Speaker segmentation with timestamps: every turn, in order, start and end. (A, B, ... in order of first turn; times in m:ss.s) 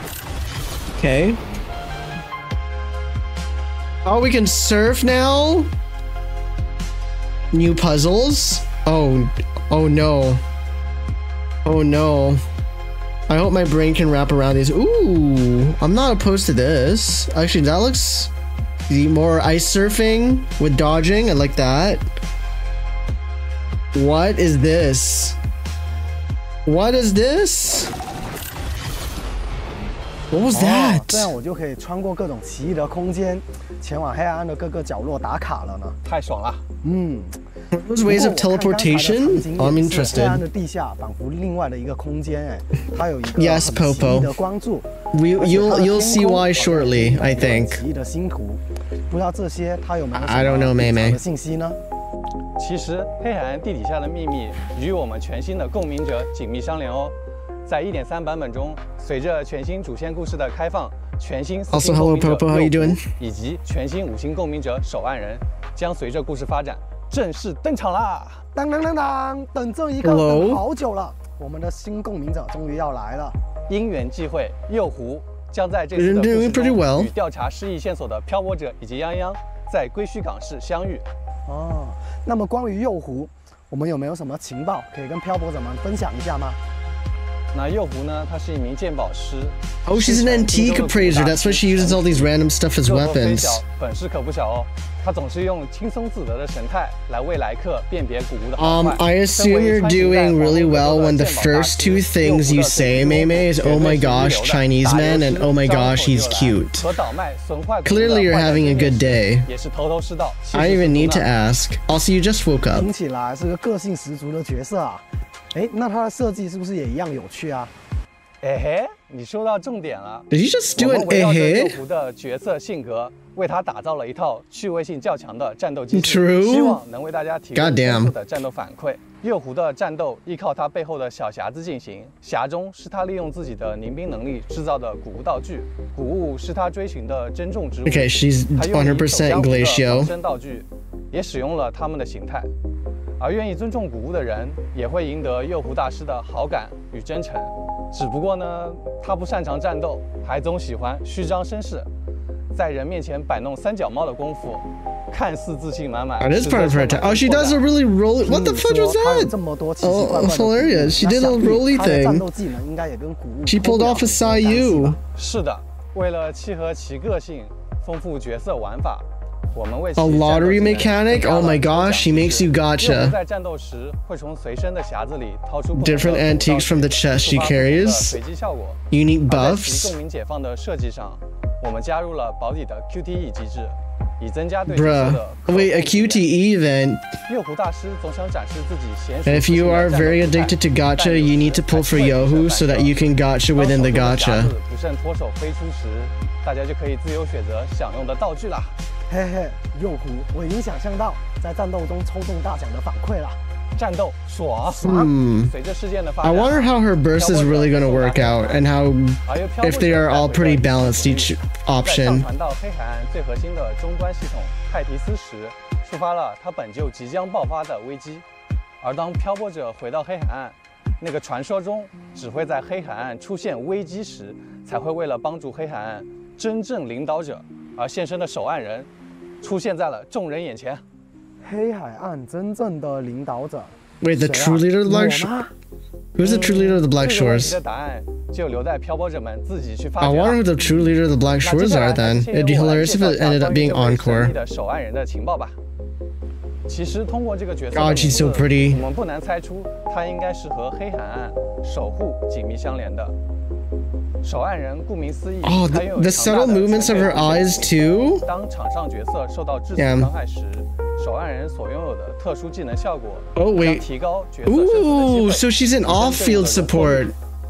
0:01.0-0:01.4 A
0:04.0-0:05.7 A
0:07.5-0:10.4 A
0:11.6-0:12.4 A
0:13.3-0:18.3 A
0:18.9-0:22.1 A
0:23.9-0:25.4 A
0:26.6-0:27.9 A
0:30.3-0:31.3 A
0:30.5-0:36.0 B
0:36.0-0:36.6 C
0:36.8-0:37.4 B
0:37.7-0:40.4 A
0:38.0-0:51.8 B
0:43.3-0:44.3 A
0:45.1-0:47.8 A
0:50.1-0:51.2 A
0:52.6-1:08.4 C
1:01.7-1:03.0 A
1:08.6-1:13.4 B
1:10.0-1:10.6 A
1:13.7-1:21.0 C
1:16.0-1:17.1 A
1:21.5-1:26.6 B
1:27.5-1:32.3 C
1:29.9-1:33.6 A
1:32.8-1:51.3 C
1:38.6-1:46.9 A
1:47.8-1:49.5 A
1:50.5-1:52.9 A
1:52.7-1:57.7 B
1:58.4-2:22.5 C
2:00.3-2:01.8 A
2:05.9-2:06.8 A
2:07.6-2:08.1 A
2:17.8-2:20.1 A
2:23.2-2:31.9 C
2:32.5-2:37.6 C
2:36.2-2:42.2 A
2:38.2-2:45.0 B
2:43.5-2:45.0 A
2:45.2-3:06.3 C
2:50.0-2:53.2 A
2:55.7-2:58.2 A
2:58.9-3:00.0 A
3:04.7-3:07.1 A
3:07.3-3:12.9 C
3:09.2-3:14.5 A
3:13.5-3:18.8 C
3:19.1-3:23.4 B
3:23.8-3:24.9 C
3:24.7-3:25.1 B
3:24.8-3:25.5 A
3:25.4-3:28.6 C
3:26.2-3:32.3 A
3:29.2-3:38.2 C
3:38.8-3:48.9 C
3:49.4-3:50.8 C
3:51.4-3:55.5 B
3:54.0-3:55.3 A
3:56.2-3:57.6 A
3:56.2-4:00.4 C
4:00.0-4:04.4 A
4:01.4-4:05.6 C
4:06.7-4:13.2 C
4:07.7-4:08.8 A
4:14.2-4:27.1 C
4:15.4-4:18.2 A
4:19.8-4:20.1 A
4:23.4-4:23.9 A
4:24.4-4:27.2 A